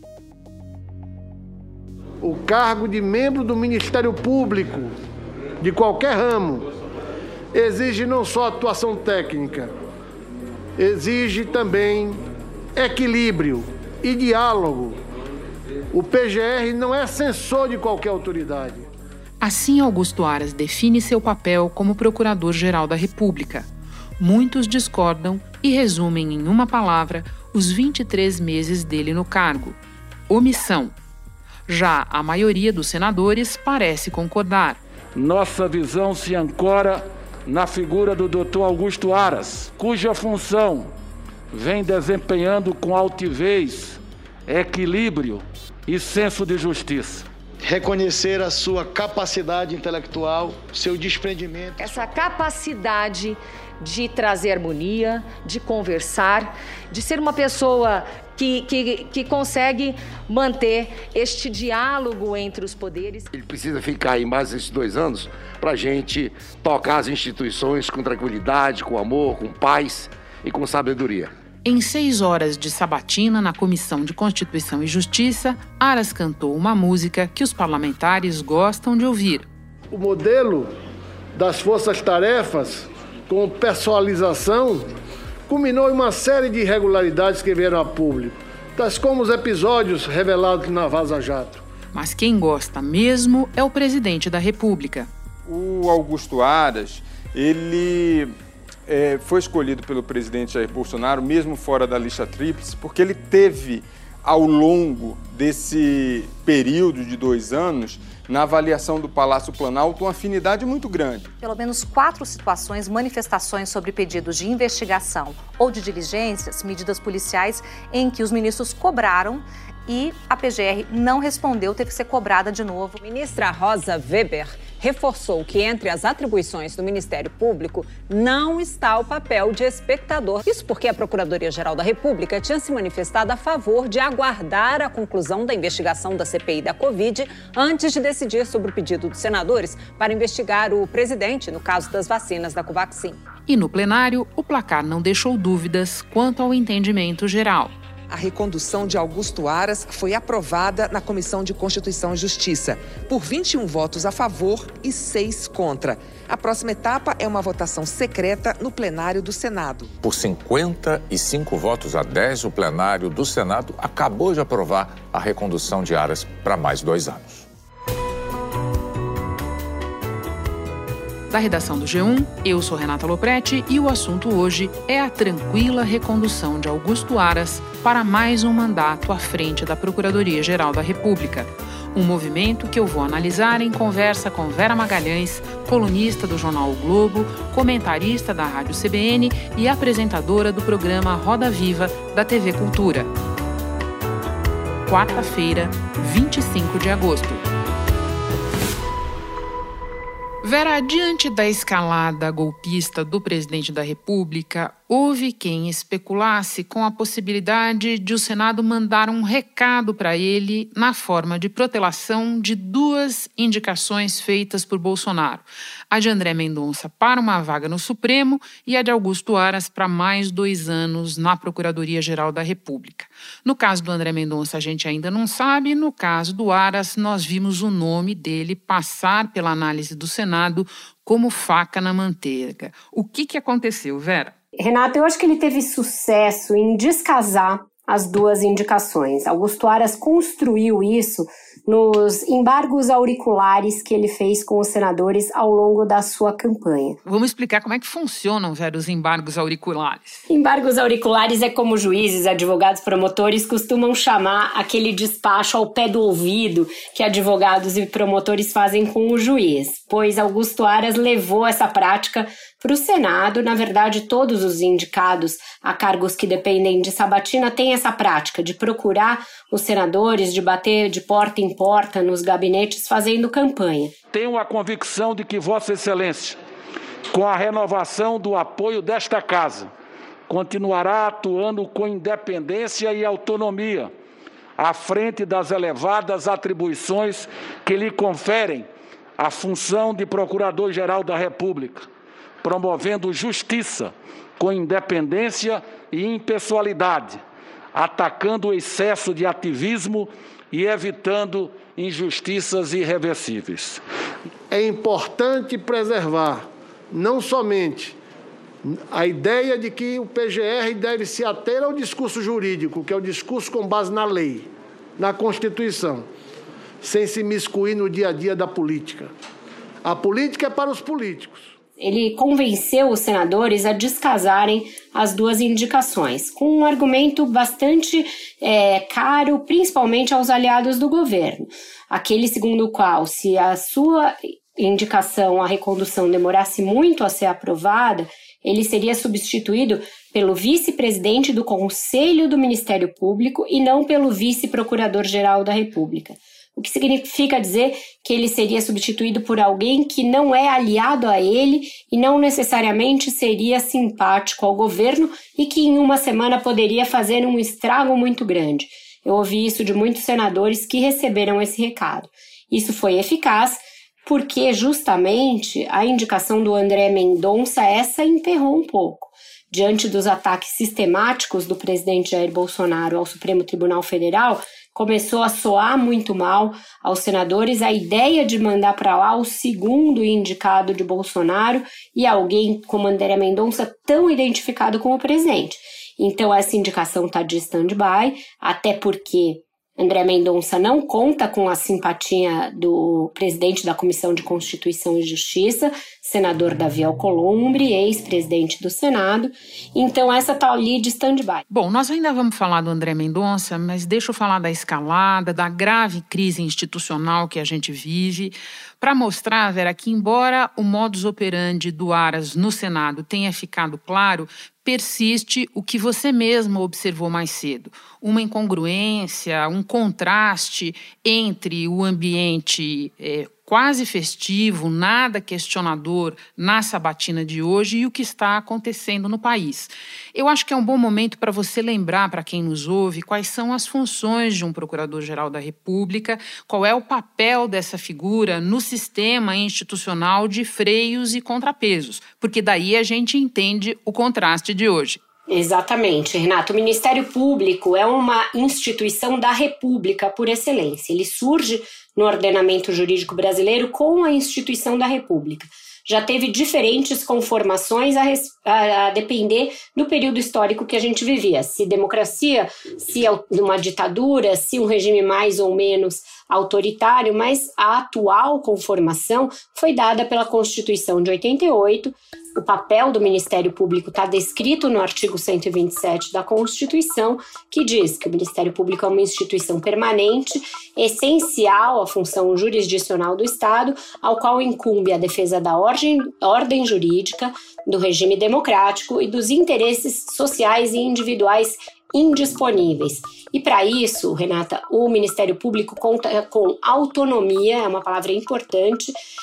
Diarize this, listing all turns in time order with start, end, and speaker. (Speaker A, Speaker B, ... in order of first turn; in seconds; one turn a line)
Speaker A: 2.2-4.9
Speaker A: 5.6-6.7
Speaker A: 7.5-9.7
Speaker A: 10.8-12.2
Speaker A: 12.7-15.0
Speaker A: 15.9-18.9
Speaker B: 19.4-23.7
Speaker B: 24.2-29.8
Speaker B: 30.3-30.9
Speaker B: 31.7-34.8
Speaker C: 35.1-40.9
Speaker C: 41.5-47.3
Speaker D: 47.6-51.8
Speaker E: 51.8-63.3
Speaker F: 63.3-71.3
Speaker B: 71.6-79.5
Speaker A: 79.9-80.7
Speaker A: 81.3-84.9
Speaker A: 85.5-91.6
Speaker B: 91.9-95.1
Speaker G: 95.5-98.3
Speaker G: 98.9-111.3
Speaker H: 111.4-123.0
Speaker I: 123.0-143.2
Speaker B: 143.5-147.7
Speaker J: 148.1-159.9
Speaker K: 160.0-167.5
Speaker B: 171.3-193.1
Speaker B: 194.8-197.4
Speaker B: 200.4-234.3
Speaker L: 234.6-247.0
Speaker B: 247.1-250.2
Speaker L: 250.3-273.9
Speaker C: 274.1-276.4
Speaker C: 277.1-279.7
Speaker C: 280.3-283.9
Speaker C: 284.6-291.9
Speaker C: 292.4-297.2
Speaker C: 297.7-303.8
Speaker A: 304.5-308.0
Speaker A: 308.6-316.1
Speaker A: 316.8-319.1
Speaker A: 319.8-321.5
Speaker L: 321.8-401.4
Speaker B: 401.5-445.0
Speaker L: 445.3-498.9